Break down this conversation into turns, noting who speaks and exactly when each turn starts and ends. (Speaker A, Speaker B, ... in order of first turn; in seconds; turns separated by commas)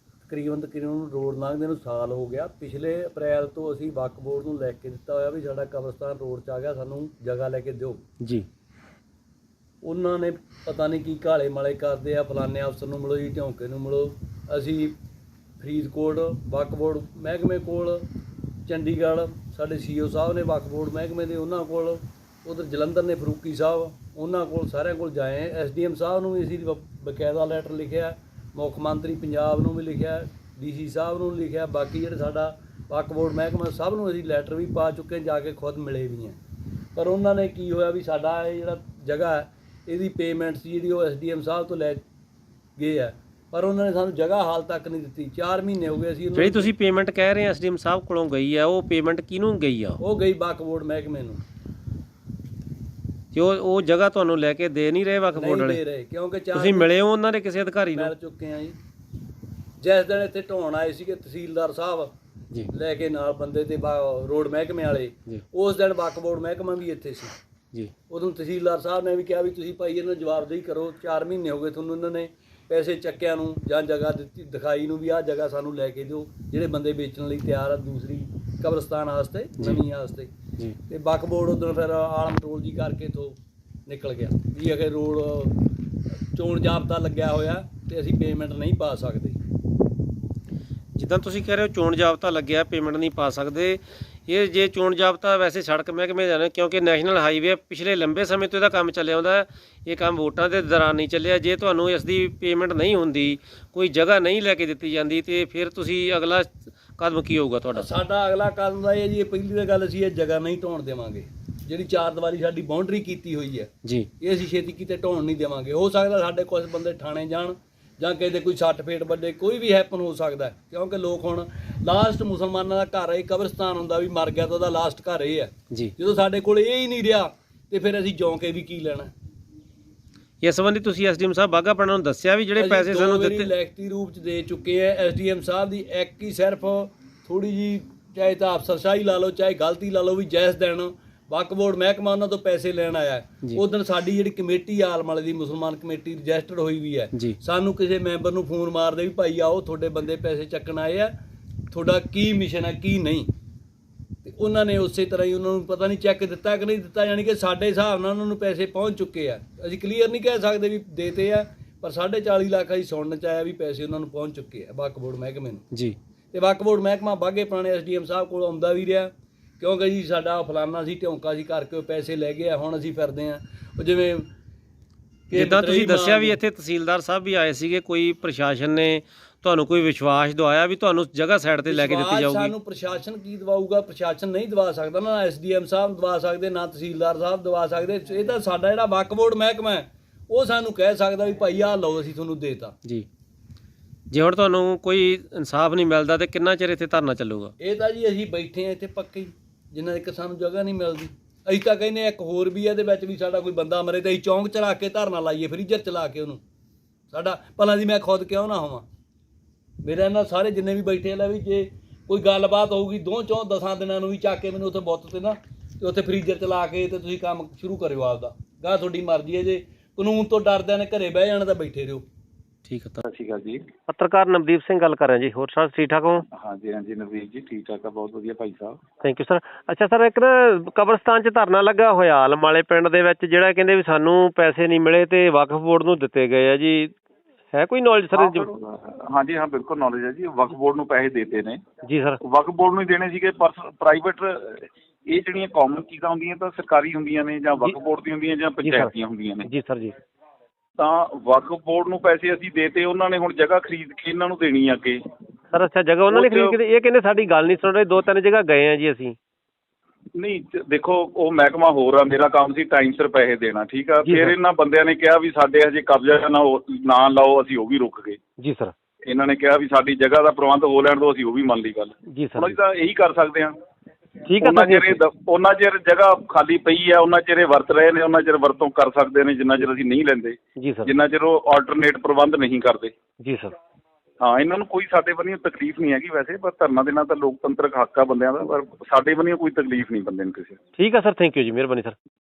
Speaker A: 0.2-8.0, Speaker B: 8.2-8.4, Speaker A: 9.8-14.9, Speaker A: 15.6-18.1, Speaker A: 18.6-36.4, Speaker A: 36.9-42.0, Speaker A: 42.8-46.7, Speaker B: 46.3-50.0, Speaker A: 50.0-51.4, Speaker B: 53.3-55.8, Speaker A: 55.3-56.9, Speaker B: 56.5-58.1, Speaker A: 57.9-58.8, Speaker A: 59.8-62.1, Speaker A: 62.7-67.3, Speaker A: 68.1-80.3, Speaker A: 80.9-85.6, Speaker A: 86.3-89.4, Speaker B: 90.9-107.9, Speaker A: 107.7-129.1, Speaker B: 130.4-133.5, Speaker A: 132.6-151.1, Speaker A: 151.7-153.3, Speaker A: 154.2-165.6, Speaker A: 166.3-174.3, Speaker A: 175.3-176.4, Speaker B: 175.3-182.5, Speaker A: 181.7-192.8, Speaker B: 194.1-197.5, Speaker A: 197.6-206.4, Speaker A: 207.1-208.8, Speaker A: 209.8-222.0, Speaker B: 222.7-223.0, Speaker C: 223.0-223.6, Speaker B: 223.9-226.2, Speaker C: 226.3-228.8, Speaker B: 229.0-236.9, Speaker B: 237.5-238.5, Speaker C: 238.1-241.6, Speaker B: 241.8-242.2, Speaker C: 242.2-249.5, Speaker B: 248.6-248.9, Speaker B: 249.4-249.9, Speaker C: 250.8-255.0, Speaker B: 255.5-259.1, Speaker C: 256.1-256.6, Speaker C: 260.1-268.2, Speaker B: 264.0-264.3, Speaker B: 268.4-268.7, Speaker C: 269.0-273.5, Speaker B: 272.1-272.6, Speaker B: 274.2-275.0, Speaker C: 274.4-282.9, Speaker B: 280.6-280.9, Speaker B: 283.2-283.5, Speaker C: 284.2-290.6, Speaker B: 290.8-291.9